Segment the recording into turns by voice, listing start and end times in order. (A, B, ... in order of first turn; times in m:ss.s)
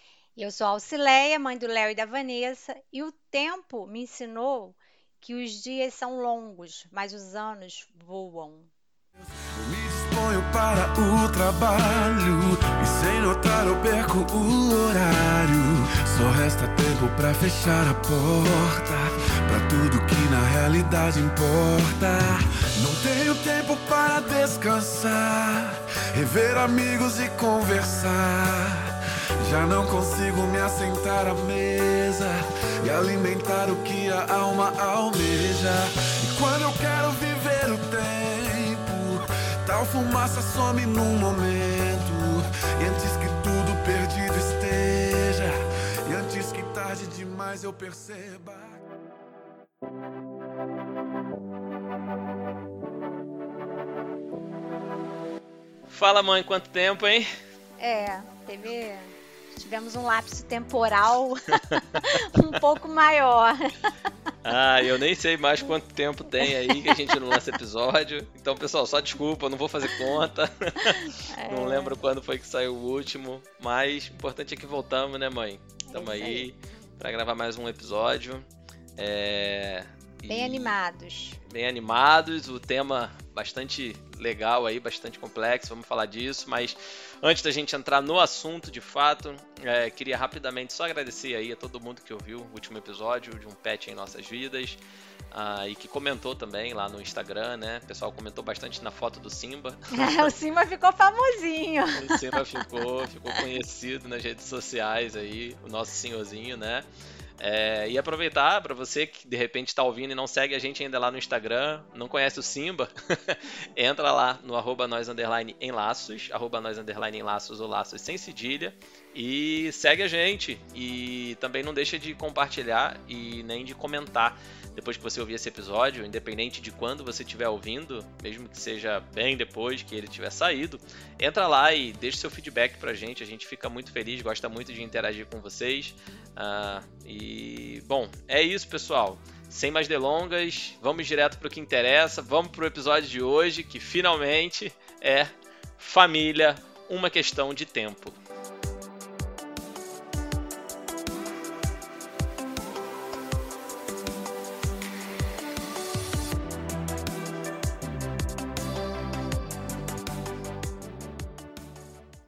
0:00.4-0:08.7 A
0:09.6-0:45.5 B
0:46.1-0:48.8 B
0:55.9-0:57.3 C
0:57.8-1:03.9 A
1:01.7-1:02.0 C
1:04.4-1:18.4 C
1:06.4-1:07.4 A
1:10.8-1:12.0 A
1:15.9-1:16.5 A
1:19.0-1:20.7 C
1:20.3-1:21.4 A
1:21.4-1:34.8 C
1:35.3-1:40.3 C
1:39.9-1:43.4 A
1:42.0-1:46.9 C
1:47.4-2:28.2 C